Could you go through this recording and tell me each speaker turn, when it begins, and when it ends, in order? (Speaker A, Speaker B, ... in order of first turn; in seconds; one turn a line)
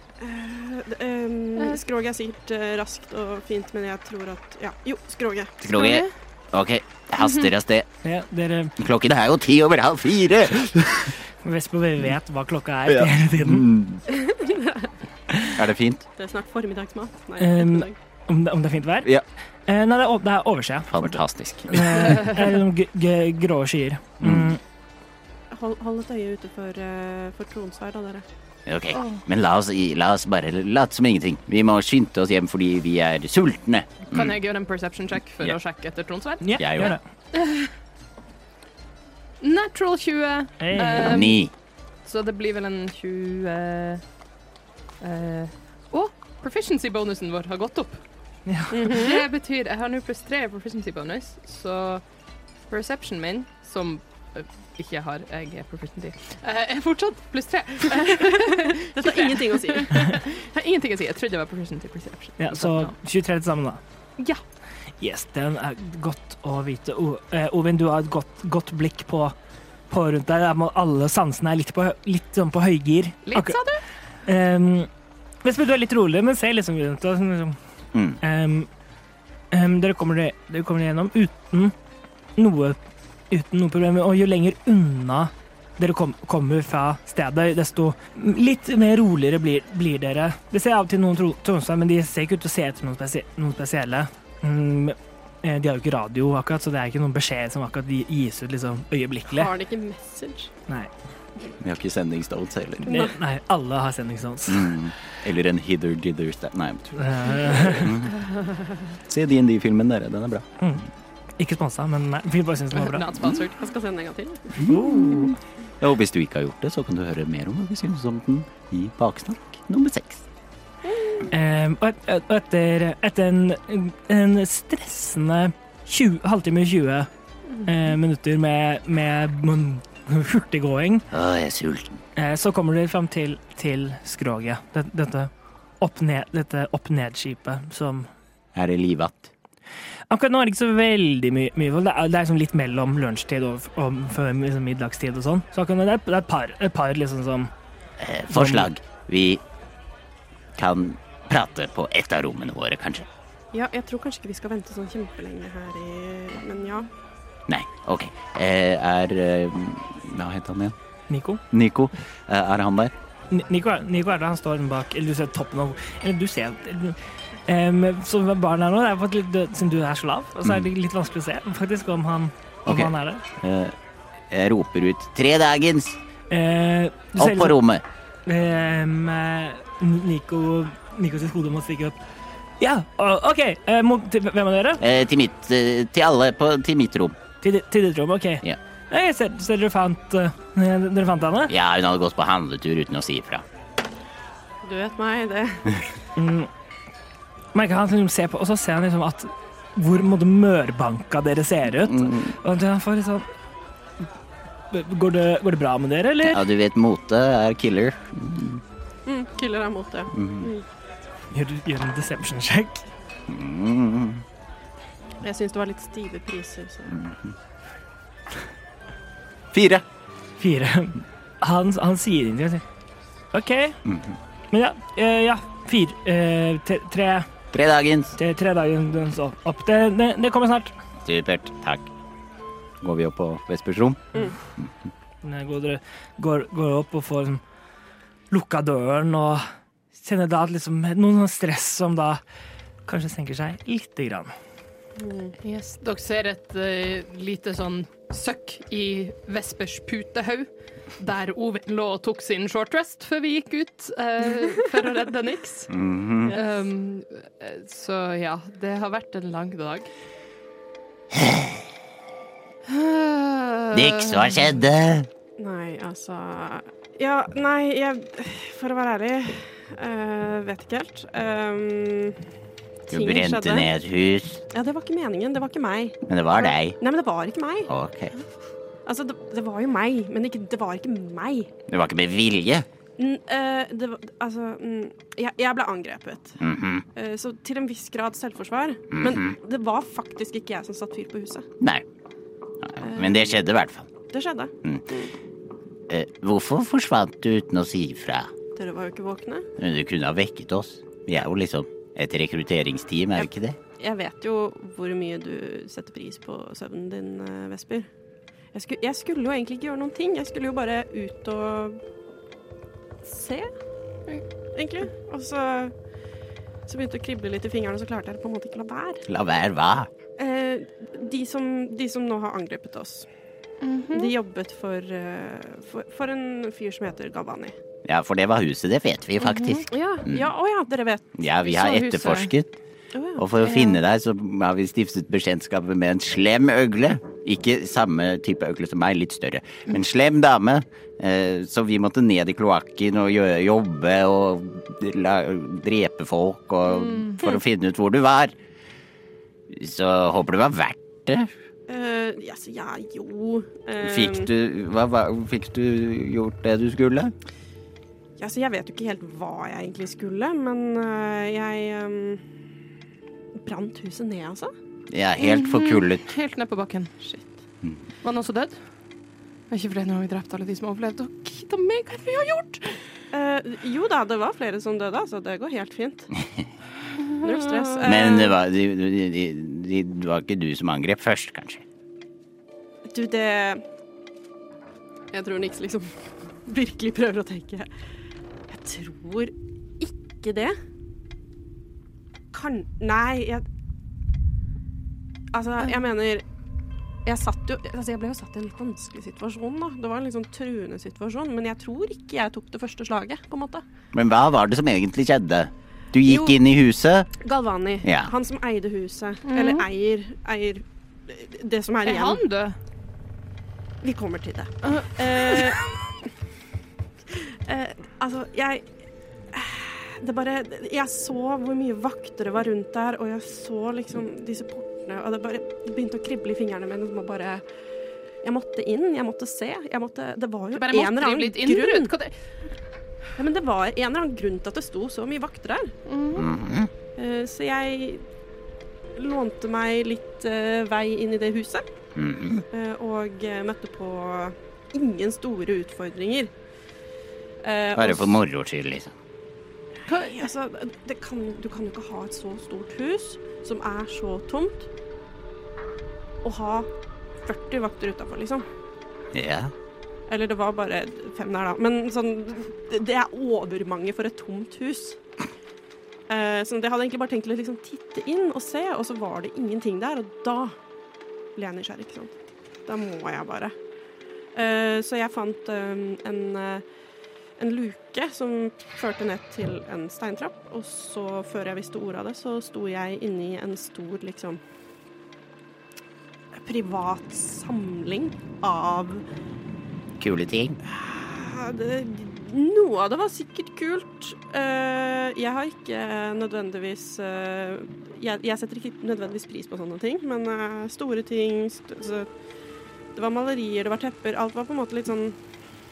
Speaker A: 0.2-5.5
Speaker B: 5.6-7.9
Speaker C: 5.7-6.1
Speaker C: 7.2-7.5
Speaker D: 8.0-8.8
Speaker B: 8.8-11.1
Speaker D: 11.4-13.7
Speaker B: 12.9-14.1
Speaker A: 14.1-14.9
Speaker B: 15.6-16.1
Speaker A: 16.2-18.0
Speaker D: 17.4-19.1
Speaker D: 19.7-24.6
Speaker B: 20.9-22.2
Speaker B: 24.2-24.5
Speaker A: 25.5-28.3
Speaker B: 28.7-34.4
Speaker C: 28.9-29.2
Speaker C: 34.1-37.7
Speaker D: 36.4-37.0
Speaker B: 36.6-37.0
Speaker C: 39.4-41.5
Speaker D: 40.6-41.2
Speaker B: 41.0-41.5
Speaker C: 42.0-44.0
Speaker C: 45.0-48.0
Speaker D: 48.5-48.8
Speaker A: 48.7-49.2
Speaker C: 48.9-52.0
Speaker C: 52.7-62.9
Speaker A: 58.5-60.3
Speaker D: 62.4-63.8
Speaker D: 65.0-69.3
Speaker D: 69.9-73.6
Speaker C: 73.3-73.8
Speaker D: 74.2-74.9
Speaker D: 75.4-77.6
Speaker B: 77.9-78.2
Speaker D: 78.2-78.7
Speaker D: 79.5-81.7
Speaker D: 82.4-82.8
Speaker D: 83.3-99.5
Speaker A: 99.3-100.5
Speaker B: 101.6-102.9
Speaker D: 102.8-104.8
Speaker A: 102.9-103.2
Speaker B: 104.5-108.1
Speaker D: 106.9-107.9
Speaker B: 109.1-110.5
Speaker D: 110.6-110.8
Speaker D: 111.4-113.1
Speaker C: 112.7-113.6
Speaker A: 113.5-114.8
Speaker D: 114.6-115.3
Speaker B: 114.6-120.2
Speaker A: 120.8-121.3
Speaker D: 121.3-127.1
Speaker D: 127.7-131.1
Speaker B: 131.1-132.0
Speaker D: 132.2-138.1
Speaker B: 138.5-139.3
Speaker D: 140.1-147.5
Speaker B: 148.0-149.4
Speaker D: 148.3-148.7
Speaker B: 150.6-153.1
Speaker A: 153.5-156.9
Speaker B: 157.5-160.8
Speaker D: 161.1-161.4
Speaker B: 161.5-162.9
Speaker D: 163.3-173.3
Speaker B: 172.7-173.8
Speaker B: 174.3-176.0
Speaker D: 176.3-177.6
Speaker B: 177.2-177.8
Speaker D: 178.3-182.0
Speaker D: 182.6-184.8
Speaker B: 184.8-187.2
Speaker D: 187.4-191.5
Speaker B: 191.5-193.4
Speaker A: 194.6-195.8
Speaker D: 196.2-196.5
Speaker D: 197.5-203.3
Speaker B: 201.9-202.3
Speaker D: 204.7-206.4
Speaker B: 206.2-208.6
Speaker A: 209.1-210.7
Speaker B: 210.1-210.5
Speaker D: 211.3-212.9
Speaker B: 213.3-214.2
Speaker A: 215.2-217.0
Speaker B: 219.5-219.8
Speaker D: 220.4-222.6
Speaker D: 223.3-223.8
Speaker B: 223.8-224.2
Speaker D: 224.5-227.3
Speaker B: 227.5-228.1
Speaker D: 228.2-230.8
Speaker B: 231.0-231.9
Speaker B: 232.8-234.9
Speaker D: 235.2-237.4
Speaker D: 238.3-242.2
Speaker D: 242.9-244.3
Speaker A: 245.0-245.4
Speaker C: 245.4-255.7
Speaker A: 254.8-255.1
Speaker B: 255.7-256.4
Speaker C: 256.3-259.9
Speaker B: 261.1-261.7
Speaker C: 262.7-264.4
Speaker B: 263.7-265.1
Speaker A: 265.4-272.2
Speaker A: 272.9-273.7
Speaker B: 272.9-274.4
Speaker A: 274.5-277.7
Speaker B: 276.1-276.8
Speaker B: 277.7-278.1
Speaker A: 278.9-281.5
Speaker B: 281.7-282.7
Speaker A: 283.0-286.4
Speaker B: 286.4-286.9
Speaker A: 286.9-291.5
Speaker B: 288.9-289.4
Speaker B: 291.6-291.9
Speaker B: 292.6-293.9
Speaker A: 292.8-293.4
Speaker A: 294.1-295.1
Speaker B: 295.9-298.3
Speaker A: 298.6-299.5
Speaker B: 299.6-303.6
Speaker A: 303.2-307.9
Speaker A: 308.5-311.8
Speaker A: 313.0-313.5
Speaker A: 314.6-315.7
Speaker A: 316.7-319.0
Speaker B: 319.1-319.9
Speaker A: 320.2-323.1
Speaker C: 323.6-324.1
Speaker A: 323.9-327.6
Speaker B: 327.8-330.3
Speaker C: 329.2-329.6
Speaker A: 329.7-331.1
Speaker B: 331.2-332.5
Speaker C: 331.4-332.3
Speaker A: 332.9-333.6
Speaker B: 333.1-348.4
Speaker C: 333.4-333.8
Speaker C: 346.7-347.3
Speaker B: 349.5-351.3
Speaker A: 351.7-354.3
Speaker B: 353.8-357.1
Speaker A: 358.2-362.2
Speaker A: 363.4-364.5
Speaker B: 364.9-366.1
Speaker C: 365.2-367.3
Speaker C: 368.0-368.6
Speaker C: 369.5-372.8
Speaker A: 373.1-376.1
Speaker B: 376.2-376.4
Speaker A: 377.2-378.4
Speaker C: 377.2-377.9
Speaker B: 377.8-381.6
Speaker A: 382.9-383.6
Speaker A: 385.1-387.7
Speaker A: 388.5-390.6
Speaker A: 392.3-393.4
Speaker A: 395.3-396.2
Speaker A: 397.1-403.6
Speaker B: 403.9-407.1
Speaker A: 406.1-406.4
Speaker A: 407.2-412.2
Speaker B: 407.8-408.1
Speaker C: 409.3-409.7
Speaker C: 411.9-412.6
Speaker A: 413.8-415.9
Speaker C: 414.6-415.6
Speaker A: 417.1-418.6
Speaker A: 419.3-427.4
Speaker A: 428.2-431.9
Speaker C: 430.6-432.1
Speaker A: 433.2-435.7
Speaker C: 435.9-436.3
Speaker B: 436.1-436.7
Speaker A: 436.9-438.0
Speaker A: 439.0-441.6
Speaker B: 442.0-442.4
Speaker A: 442.5-446.3
Speaker A: 447.4-448.2
Speaker B: 447.8-448.9
Speaker A: 449.9-454.7
Speaker C: 449.9-450.2
Speaker A: 456.2-456.7
Speaker A: 457.2-458.5
Speaker B: 459.1-459.5
Speaker A: 460.1-465.0
Speaker A: 466.1-470.6
Speaker A: 471.4-473.6
Speaker A: 474.4-476.6
Speaker A: 477.4-484.4
Speaker A: 486.4-489.0
Speaker B: 490.0-490.6
Speaker A: 490.7-502.1
Speaker A: 502.9-505.2